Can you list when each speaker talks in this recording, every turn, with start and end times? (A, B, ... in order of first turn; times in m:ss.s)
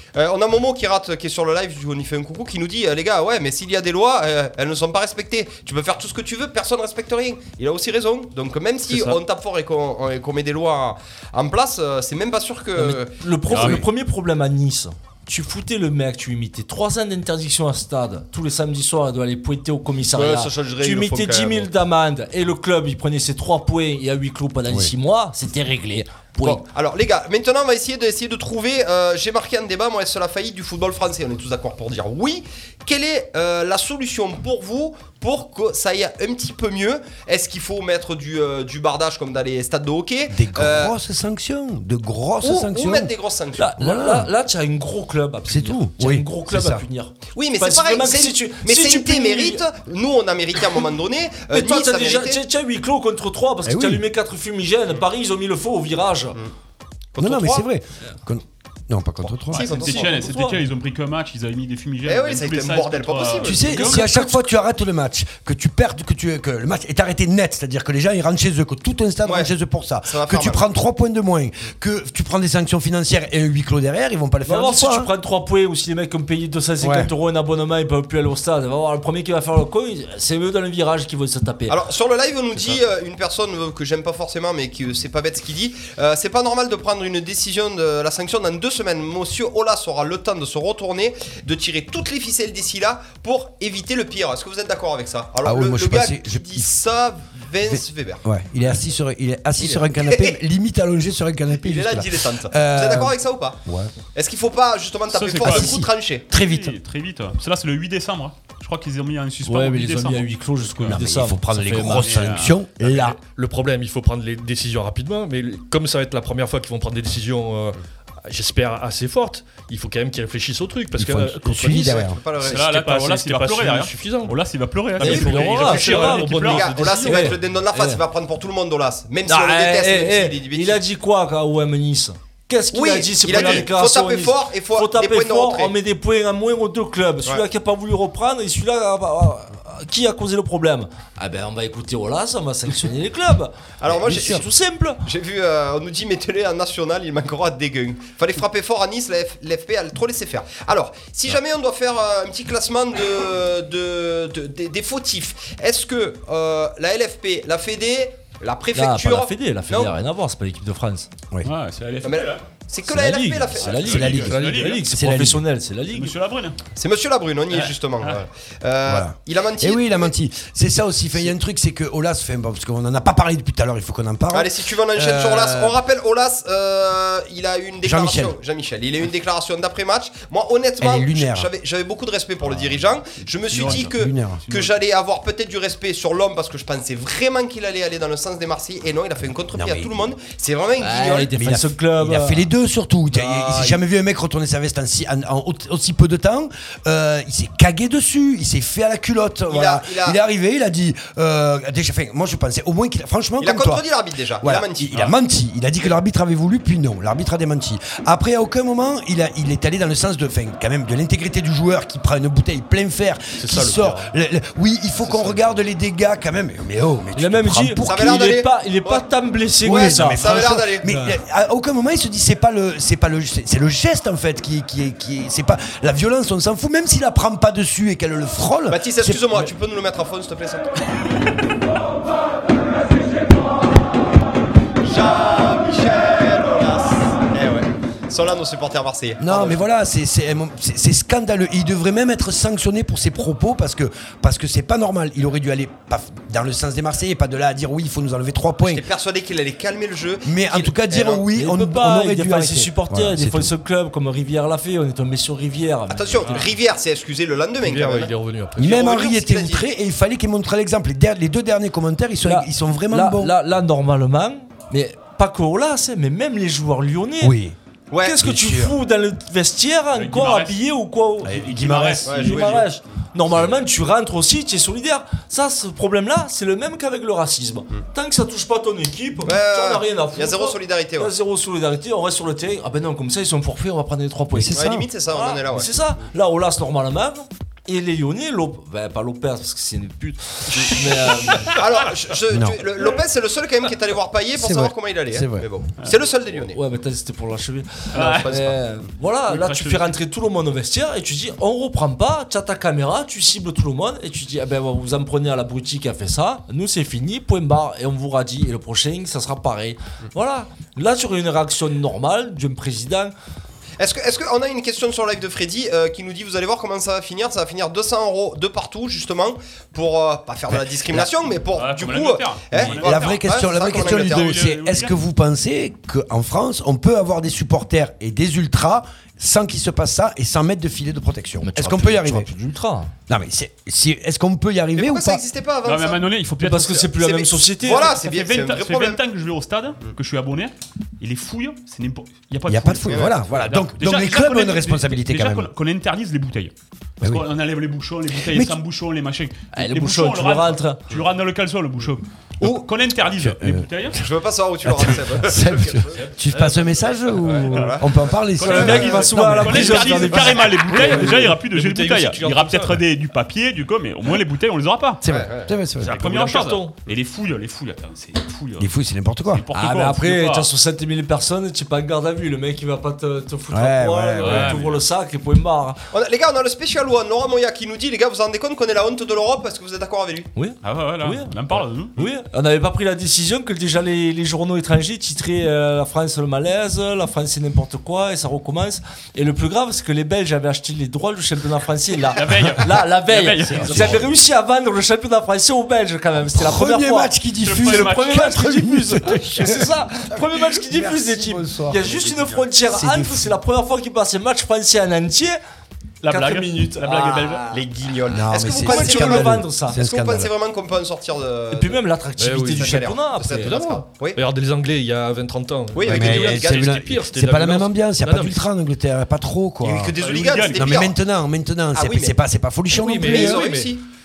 0:00.1-0:13.8 A
0:12.7-0:26.6 B
0:13.5-0:13.8 C
0:20.1-0:21.7 A
0:24.7-0:24.9 D
0:26.4-0:40.9 A
0:40.3-0:43.1 D
0:42.4-0:43.7 A
0:43.6-0:49.6 B
0:43.8-0:44.3 D
0:45.4-0:46.8 D
0:47.3-0:52.4 A
0:51.5-0:56.4 B
0:53.6-0:54.0 D
0:57.1-0:57.6 A
0:57.2-0:59.7 D
0:59.2-1:00.2 A
0:59.5-1:04.3 C
0:59.6-1:00.7 B
1:02.0-1:04.0 A
1:03.4-1:15.1 D
1:09.2-1:09.5 A
1:10.1-1:10.6 A
1:14.4-1:21.8 B
1:16.8-1:17.1 D
1:21.7-1:38.2 A
1:35.4-1:36.7 D
1:37.6-1:43.9 D
1:39.6-1:40.4 A
1:41.5-1:43.6 A
1:44.1-1:46.3 A
1:45.1-1:51.0 C
1:45.4-1:46.8 D
1:49.4-1:52.3 B
1:50.8-1:53.2 D
1:51.7-1:52.6 C
1:52.8-2:04.4 E
2:01.0-2:02.2 D
2:01.6-2:02.6 A
2:02.4-2:07.1 C
2:05.0-2:07.4 E
2:05.0-2:08.0 B
2:06.5-2:10.8 A
2:09.2-2:25.0 B
2:12.7-2:15.7 A
2:13.2-2:13.7 C
2:23.8-2:24.4 A
2:24.0-2:24.4 D
2:25.0-2:39.9 A
2:38.7-2:41.1 B
2:41.4-2:42.4 C
2:42.0-2:44.3 A
2:42.8-2:46.1 B
2:43.6-2:44.8 C
2:43.8-2:45.4 D
2:45.9-2:46.6 C
2:46.7-2:50.1 A
2:47.5-2:48.2 C
2:48.8-2:55.8 D
2:54.3-3:11.3 A
2:57.8-2:58.4 D
3:00.8-3:01.5 D
3:03.5-3:04.7 C
3:03.6-3:04.4 D
3:09.5-3:10.1 D
3:10.8-3:12.5 B
3:11.3-3:23.8 D
3:13.1-3:13.8 A
3:19.5-3:20.2 A
3:23.4-3:25.1 A
3:24.4-3:38.4 D
3:33.4-3:34.1 E
3:35.2-3:35.5 E
3:37.1-3:41.1 B
3:37.8-3:39.0 A
3:39.6-3:40.9 A
3:39.6-3:49.5 D
3:48.7-3:50.7 A
3:54.8-3:59.6 A
3:59.2-4:08.8 D
4:08.6-4:11.2 A
4:10.2-4:13.5 D
4:11.3-4:16.4 B
4:15.9-4:19.6 A
4:17.6-4:18.9 E
4:18.6-4:23.3 D
4:22.2-4:27.4 B
4:27.2-4:27.6 D
4:27.9-4:28.2 A
4:28.0-4:51.6 B
4:28.2-4:28.8 D
4:29.9-4:30.6 C
4:31.2-4:32.4 D
4:31.2-4:32.3 C
4:32.0-4:32.7 A
4:39.2-4:41.1 A
4:44.3-4:44.9 D
4:44.5-4:45.9 A
4:51.5-4:56.6 A
4:52.3-4:52.6 D
4:54.4-4:55.5 D
4:56.5-5:13.1 B
4:57.9-4:58.3 C
4:58.0-4:58.6 A
4:59.3-5:00.0 C
5:13.8-5:24.3 A
5:20.5-5:21.1 D
5:21.5-5:24.9 C
5:22.5-5:32.3 D
5:31.4-5:32.9 B
5:33.1-5:35.2 D
5:34.8-5:36.1 A
5:35.6-5:36.9 C
5:36.4-5:37.9 B
5:36.8-5:39.0 A
5:37.6-5:54.0 C
5:42.5-5:45.5 D
5:42.9-5:43.3 A
5:47.0-5:47.3 D
5:48.2-5:48.6 D
5:49.5-5:50.8 B
5:52.4-5:54.0 D
5:53.9-5:56.0 A
5:54.6-6:00.1 D
5:56.3-5:56.8 E
5:57.2-5:57.9 A
5:57.5-6:05.0 C
5:58.4-6:01.1 B
5:58.5-5:58.8 A
6:00.7-6:02.8 E
6:05.0-6:05.9 D
6:05.0-6:05.6 A
6:05.8-6:08.7 C
6:05.8-6:06.8 E
6:08.6-6:09.4 D
6:09.3-6:10.5 C
6:09.5-6:15.8 B
6:13.5-6:14.6 D
6:14.2-6:14.8 C
6:15.9-6:20.3 A
6:20.3-6:45.4 B
6:20.6-6:21.9 C
6:32.1-6:34.0 C
6:33.5-6:34.1 D
6:36.3-6:43.4 D
6:37.4-6:38.5 C
6:46.0-6:47.5 C
6:46.0-6:47.6 B
6:47.5-6:51.8 A
6:48.1-6:50.3 D
6:48.5-6:49.8 B
6:51.5-6:53.6 B
6:52.2-6:58.4 E
6:52.5-6:54.2 A
6:55.7-6:56.7 A
6:55.8-7:00.0 D
6:59.6-7:00.9 A
7:00.0-7:00.8 C
7:00.5-7:03.5 D
7:01.7-7:02.2 A
7:02.7-7:03.8 E
7:03.0-7:03.8 A